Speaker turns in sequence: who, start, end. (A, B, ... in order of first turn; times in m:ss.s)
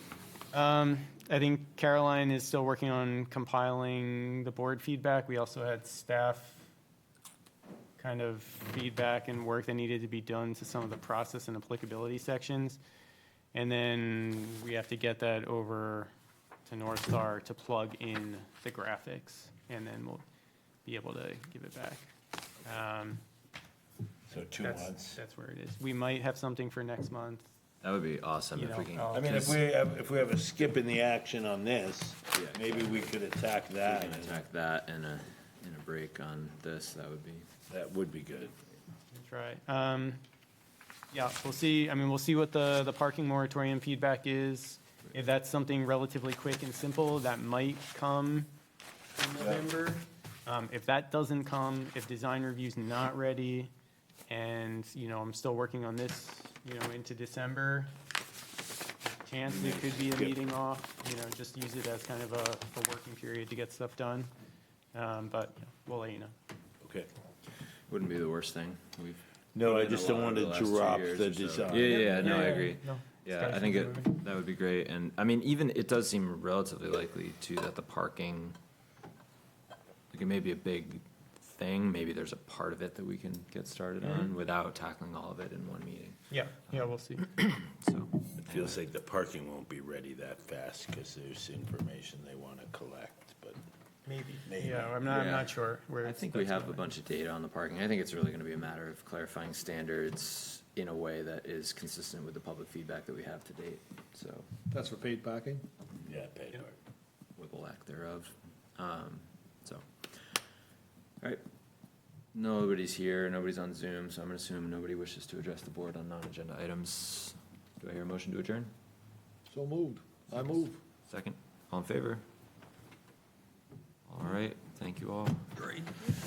0:00.5-0:06.6 A
0:08.0-0:12.8 A
0:13.5-0:16.1 A
0:16.7-0:20.2 A
0:20.9-0:22.1 A
0:22.6-0:23.2 A
0:24.3-0:25.2 B
0:24.6-0:27.5 A
0:27.8-0:29.6 C
0:28.6-0:29.6 A
0:29.1-0:34.4 B
0:32.3-0:33.2 C
0:33.8-0:37.5 C
0:37.7-0:38.6 B
0:39.1-0:40.2 A
0:41.1-0:48.5 A
0:49.2-0:53.7 A
0:54.3-0:57.9 A
0:59.1-1:04.3 A
0:59.5-1:00.3 B
1:04.9-1:06.3 A
1:06.8-1:07.1 B
1:07.9-1:18.6 C
1:09.6-1:12.4 B
1:11.9-1:14.2 A
1:20.1-1:28.8 C
1:24.0-1:24.3 A
1:26.3-1:27.4 A
1:28.4-1:33.6 B
1:34.1-1:36.8 A
1:34.4-1:34.9 B
1:35.0-1:44.5 C
1:44.7-1:45.6 D
1:46.0-1:46.8 B
1:47.4-1:50.3 C
1:52.3-1:58.7 C
1:59.5-2:00.8 D
2:01.1-2:02.2 C
2:04.1-2:05.5 C
2:05.6-2:06.0 D